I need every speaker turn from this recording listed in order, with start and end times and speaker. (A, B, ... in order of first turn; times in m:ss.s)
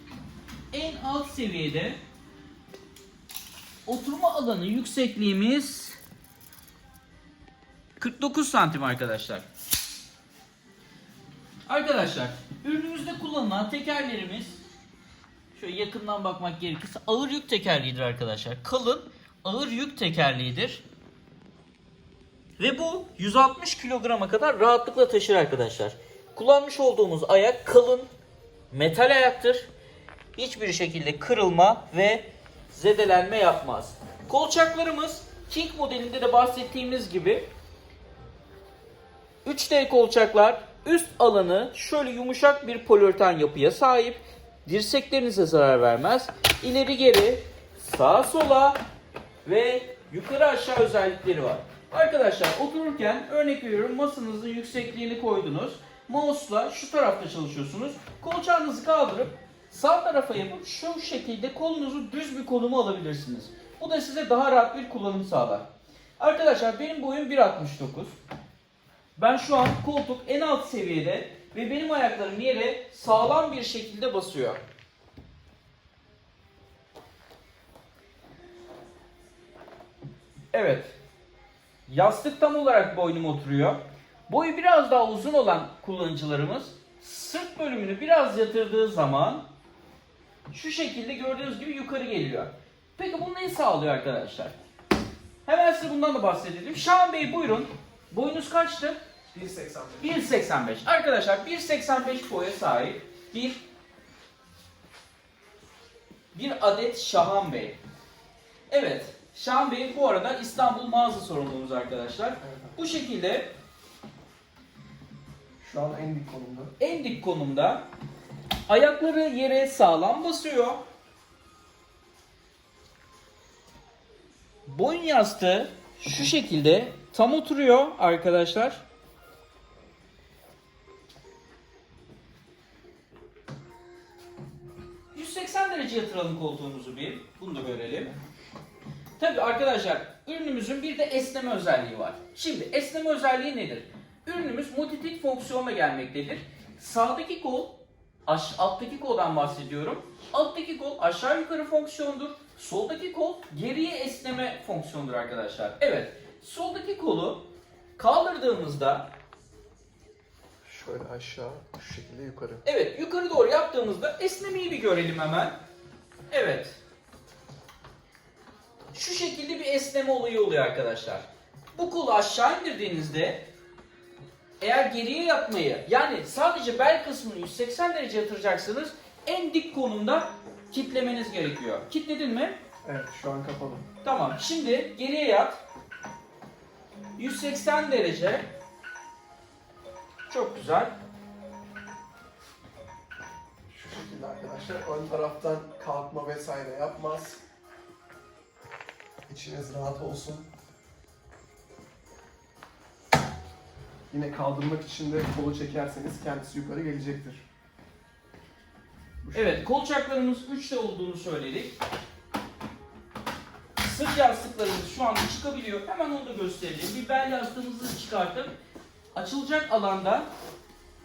0:00.7-0:02.0 A
0:03.8-0:06.0 A
0:08.0-0:09.5 A
0:11.7-0:14.6 A
0:15.5-0:20.8 A
0:22.6-0:28.1 A
0:28.7-0:29.7 A
0:30.4-0:37.4 A
0:39.4-0:48.8 A
0:49.4-1:05.7 A
1:06.2-1:08.1 A
1:09.2-1:14.6 A
1:20.5-1:20.9 A
1:21.9-1:29.5 A
1:30.5-1:34.6 A
1:35.4-1:39.0 A
1:39.3-1:40.2 B
1:40.0-1:43.6 A
1:46.3-1:47.8 A
1:48.7-1:53.5 A
1:52.4-1:52.7 B
1:55.6-1:56.7 B
1:56.8-1:57.9 A
1:58.7-2:00.8 A
2:04.6-2:08.8 A
2:15.1-2:18.1 A
2:19.2-2:37.4 A
2:38.0-2:39.1 A
2:40.6-2:42.6 B
2:42.6-2:45.6 A
2:46.3-2:46.8 A
2:48.9-2:53.5 A
2:54.6-3:02.6 A
3:02.8-3:03.8 B
3:04.0-3:05.6 A
3:07.2-3:08.5 A
3:10.3-3:10.9 A
3:13.7-3:17.4 B
3:19.3-3:20.5 B
3:24.1-3:27.4 B
3:29.2-3:29.6 B
3:29.3-3:31.7 A
3:33.8-3:38.5 A
3:39.1-3:40.3 A